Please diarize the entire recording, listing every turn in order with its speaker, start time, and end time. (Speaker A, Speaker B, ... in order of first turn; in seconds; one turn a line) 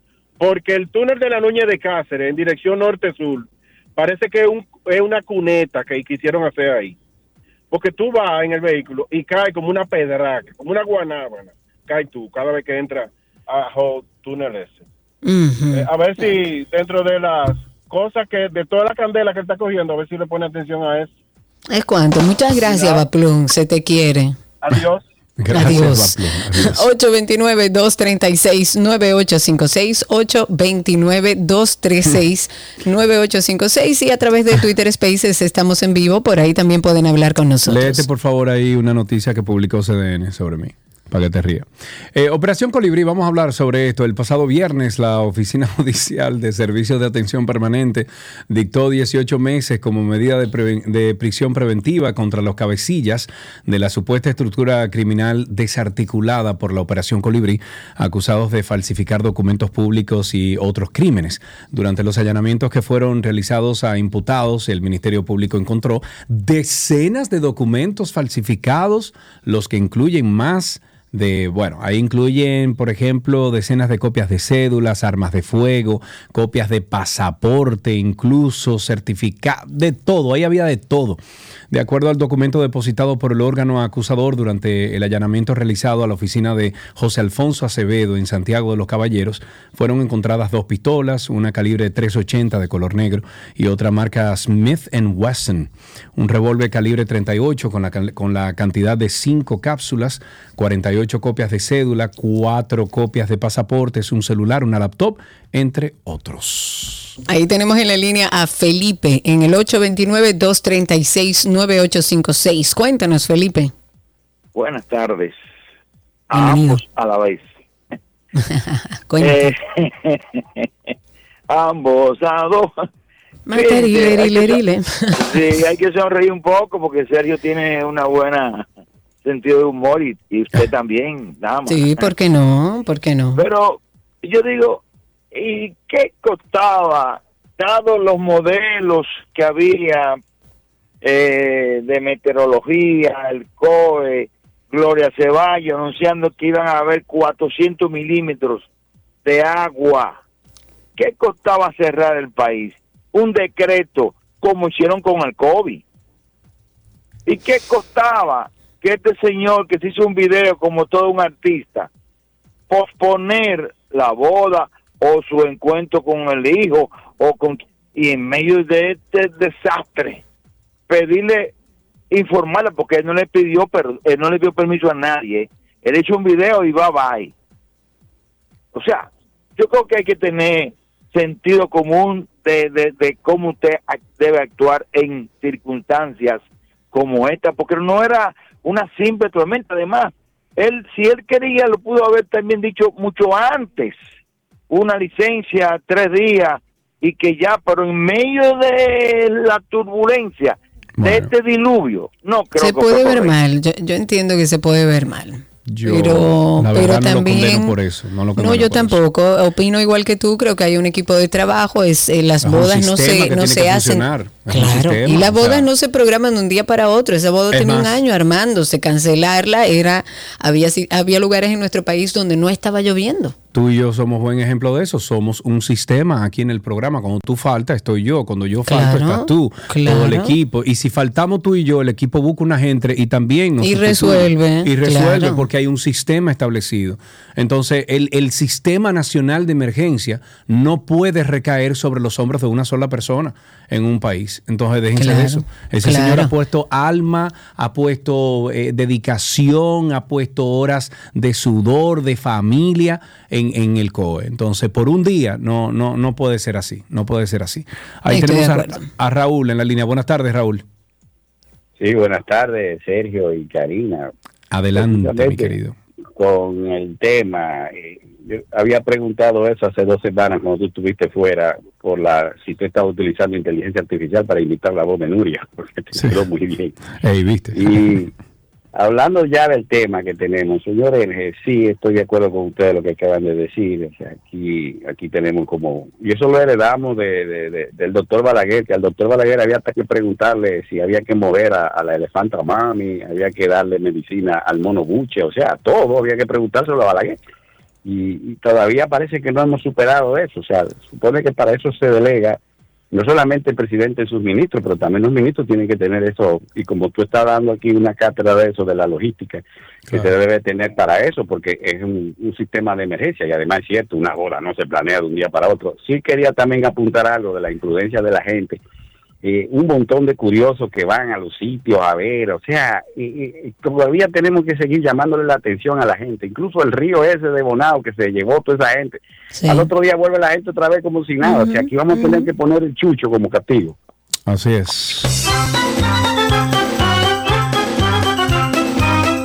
Speaker A: 0.4-7.0
Speaker A: 7.7-14.8
Speaker B: 15.2-15.9
Speaker A: 15.7-21.1
Speaker B: 21.7-24.4
Speaker A: 22.6-23.1
Speaker A: 24.6-25.0
Speaker C: 25.4-26.9
Speaker B: 25.5-38.0
Speaker C: 37.6-81.2
Speaker C: 81.7-107.2
Speaker B: 107.3-113.7
Speaker D: 114.5-115.4
Speaker D: 116.3-117.5
Speaker B: 116.3-116.8
Speaker B: 118.4-119.5
Speaker D: 119.2-120.6
Speaker D: 121.5-122.7
Speaker B: 123.5-125.2
Speaker D: 123.5-124.6
Speaker D: 125.1-128.7
Speaker D: 129.2-132.1
Speaker B: 131.7-133.4
Speaker D: 133.3-134.8
Speaker D: 135.3-140.2
Speaker D: 141.0-148.7
Speaker D: 149.2-150.2
Speaker D: 151.0-155.8
Speaker D: 157.2-161.9
Speaker D: 162.7-170.2
Speaker D: 170.9-171.5
Speaker D: 172.1-177.3
Speaker D: 178.7-186.4
Speaker D: 186.9-194.0
Speaker D: 194.7-203.3
Speaker C: 201.0-201.3
Speaker B: 202.6-207.7
Speaker C: 205.7-209.0
Speaker B: 208.4-223.3
Speaker C: 212.4-215.7
Speaker C: 217.5-218.0
Speaker C: 223.5-260.6
Speaker B: 228.6-230.3
Speaker B: 233.6-235.4
Speaker B: 244.9-246.3
Speaker B: 258.1-258.9
Speaker E: 261.8-264.1
Speaker C: 264.5-265.7
Speaker E: 264.8-265.5
Speaker E: 266.1-276.8
Speaker C: 275.9-276.3
Speaker C: 277.0-278.1
Speaker E: 277.5-278.1
Speaker E: 278.8-297.2
Speaker E: 297.8-302.4
Speaker E: 302.9-318.6
Speaker E: 319.2-333.8
Speaker B: 329.3-329.7
Speaker B: 331.2-332.3
Speaker C: 334.3-335.1